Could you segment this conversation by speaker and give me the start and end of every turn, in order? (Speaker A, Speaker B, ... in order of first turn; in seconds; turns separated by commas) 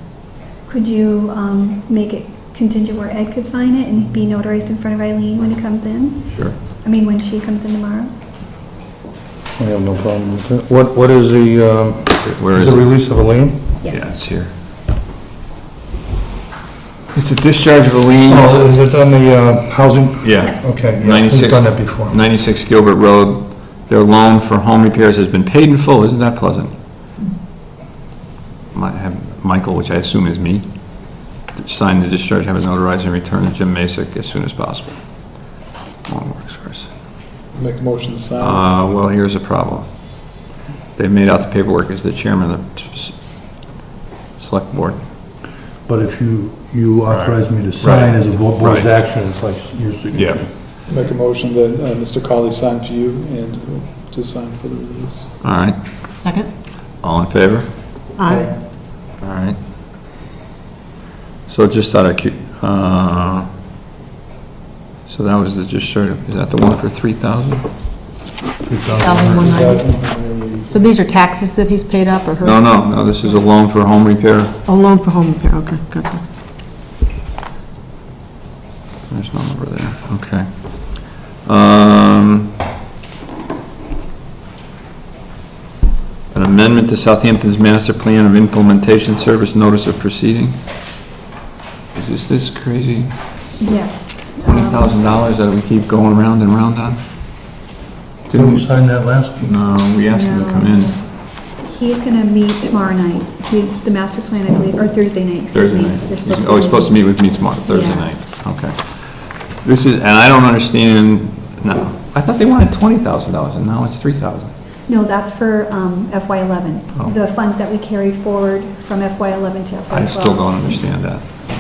Speaker A: 0.7-6.3, Speaker A: 6.8-8.1, Speaker B: 9.6-13.7, Speaker C: 12.2-12.9, Speaker A: 13.8-14.1, Speaker C: 13.9-14.5, Speaker C: 17.1-18.6, Speaker B: 18.3-22.2, Speaker C: 20.2-26.7, Speaker A: 20.4-20.7, Speaker C: 28.7-30.6, Speaker C: 31.5-35.0, Speaker C: 36.1-36.9, Speaker D: 37.5-38.6, Speaker C: 38.4-39.9, Speaker C: 41.0-43.2, Speaker C: 44.4-45.0, Speaker B: 45.9-50.5, Speaker C: 47.1-48.9, Speaker C: 50.1-50.5, Speaker D: 50.9-55.3, Speaker C: 55.4-55.8, Speaker E: 56.2-56.5, Speaker C: 57.0-57.7, Speaker E: 58.2-58.5, Speaker D: 58.2-58.5, Speaker C: 59.2-59.6, Speaker C: 61.5-63.5, Speaker C: 65.1-67.7, Speaker B: 68.6-69.6, Speaker E: 69.0-69.9, Speaker D: 69.2-70.9, Speaker E: 70.7-72.6, Speaker C: 72.4-74.5, Speaker E: 74.7-76.2, Speaker C: 79.1-82.5, Speaker C: 86.3-90.6, Speaker C: 91.9-93.1, Speaker A: 93.6-95.0, Speaker C: 94.5-97.0, Speaker C: 98.3-98.7, Speaker B: 98.3-99.5, Speaker C: 99.4-100.9, Speaker A: 100.1-101.0, Speaker A: 101.7-108.1, Speaker C: 105.5-114.5, Speaker A: 114.9-120.4, Speaker C: 119.9-121.2